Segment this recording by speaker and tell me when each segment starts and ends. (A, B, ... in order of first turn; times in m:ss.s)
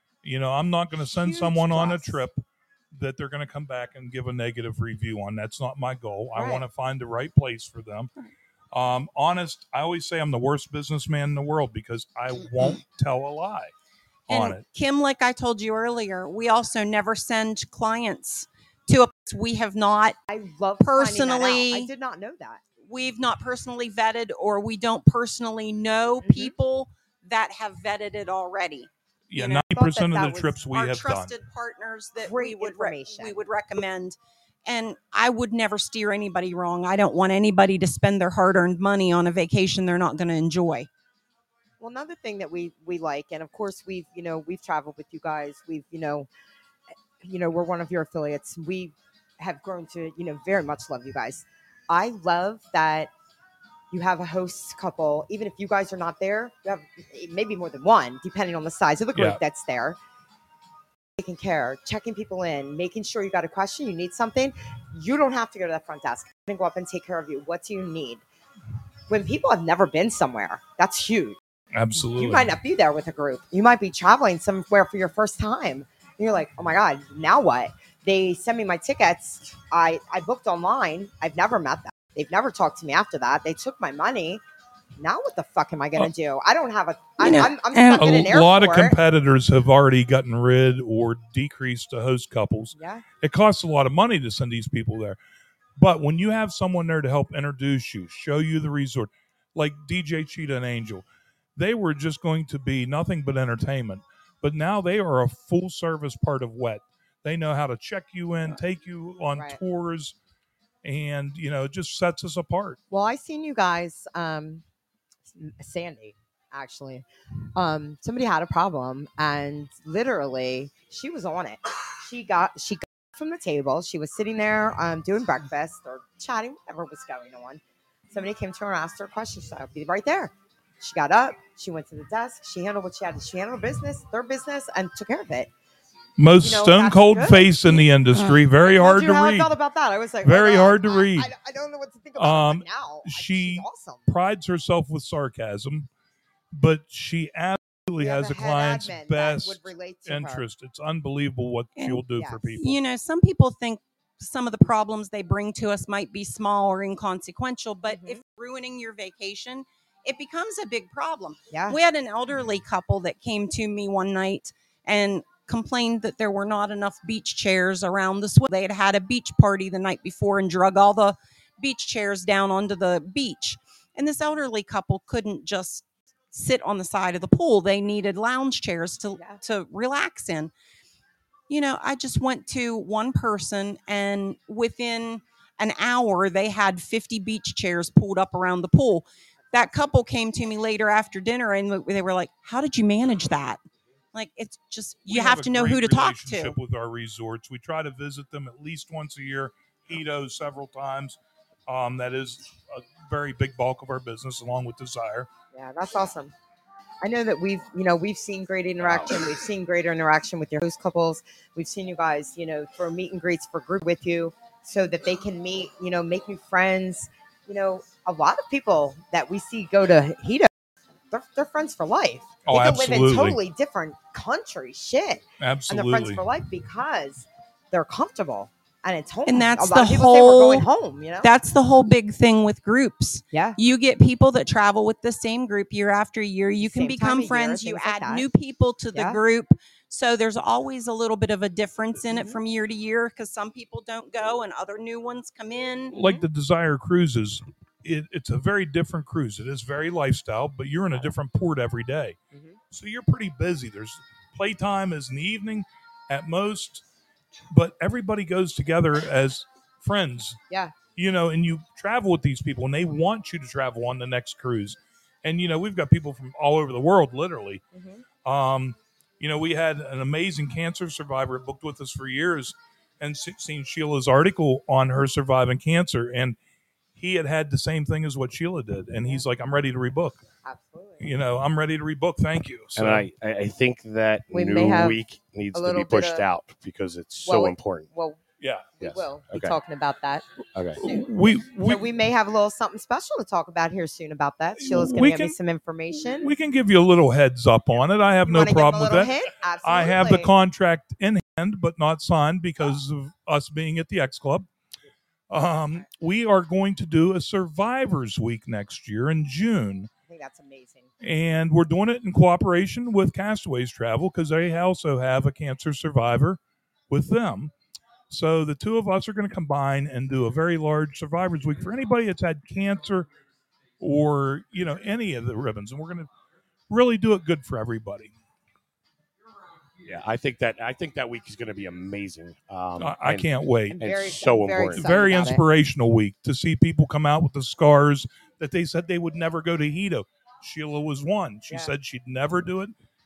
0:00.2-0:08.1 A
0:01.1-0:02.2 B
0:06.4-0:06.6 B
0:08.7-0:13.7 A
0:14.3-0:14.6 A
0:14.3-0:20.2 C
0:20.3-0:22.6 B
0:20.8-0:21.9 C
0:22.8-0:28.9 C
0:29.3-0:31.4 A
0:29.4-0:30.5 B
0:30.7-0:40.9 C
0:32.2-0:33.4 B
0:41.8-0:46.3 B
0:47.2-0:53.1 B
0:53.9-1:00.0 B
0:59.1-0:59.4 A
1:01.2-1:08.2 B
1:09.1-1:11.4 B
1:11.7-1:12.5 A
1:12.0-1:24.4 B
1:25.0-1:29.0 B
1:27.2-1:28.1 C
1:27.9-1:35.2 A
1:32.7-1:33.0 B
1:35.8-1:41.0 A
1:41.6-1:50.1 A
1:49.4-1:49.6 B
1:50.8-1:52.8 A
1:52.9-1:54.6 B
1:55.3-2:15.5 B
2:16.2-2:19.5 A
2:16.4-2:17.9 B
2:18.6-2:24.1 B
2:20.2-2:21.3 A
2:22.2-2:25.9 A
2:26.5-2:32.7 A
2:28.0-2:30.4 B
2:31.8-2:32.0 C
2:32.1-2:32.6 B
2:32.6-3:00.5 C
2:37.9-2:38.2 B
2:41.5-2:41.8 B
3:01.5-3:13.6 C
3:14.1-3:16.6 C
3:15.1-3:25.3 A
3:25.5-3:26.3 B
3:27.0-3:40.5 B
3:28.8-3:29.1 D
3:41.1-3:51.3 B
3:42.4-3:43.4 A
3:45.4-3:46.2 A
3:49.2-3:50.7 C
3:51.2-4:06.0 C
3:53.3-3:53.6 B
3:56.6-3:58.3 B
3:58.9-3:59.2 B
4:02.1-4:02.4 B
4:05.9-4:12.2 A
4:12.7-4:16.8 A
4:17.5-4:20.4 A
4:20.9-4:27.6 A
4:27.7-4:28.0 B
4:28.2-4:36.4 A
4:37.0-4:40.2 A
4:40.4-4:41.1 B
4:41.0-4:43.1 A
4:42.8-4:47.9 D
4:44.3-4:45.0 B
4:45.5-4:46.2 B
4:47.2-4:48.2 B
4:48.4-4:48.7 A
4:48.8-4:50.2 B
4:48.8-4:49.6 D
4:50.5-4:50.8 D
4:50.8-4:51.9 A
4:50.8-4:51.1 B
4:51.6-4:56.3 B
4:54.6-4:55.4 A
4:56.0-5:04.5 A
4:58.3-5:00.3 B
5:05.3-5:09.9 A
5:10.1-5:10.9 B
5:11.0-5:16.4 A
5:16.9-5:17.5 A
5:18.1-5:23.1 A
5:23.8-5:26.1 A
5:26.7-5:28.1 A
5:29.8-5:33.3 D
5:32.8-5:34.0 A
5:33.7-5:35.4 B
5:33.8-5:34.9 D
5:34.7-5:42.7 A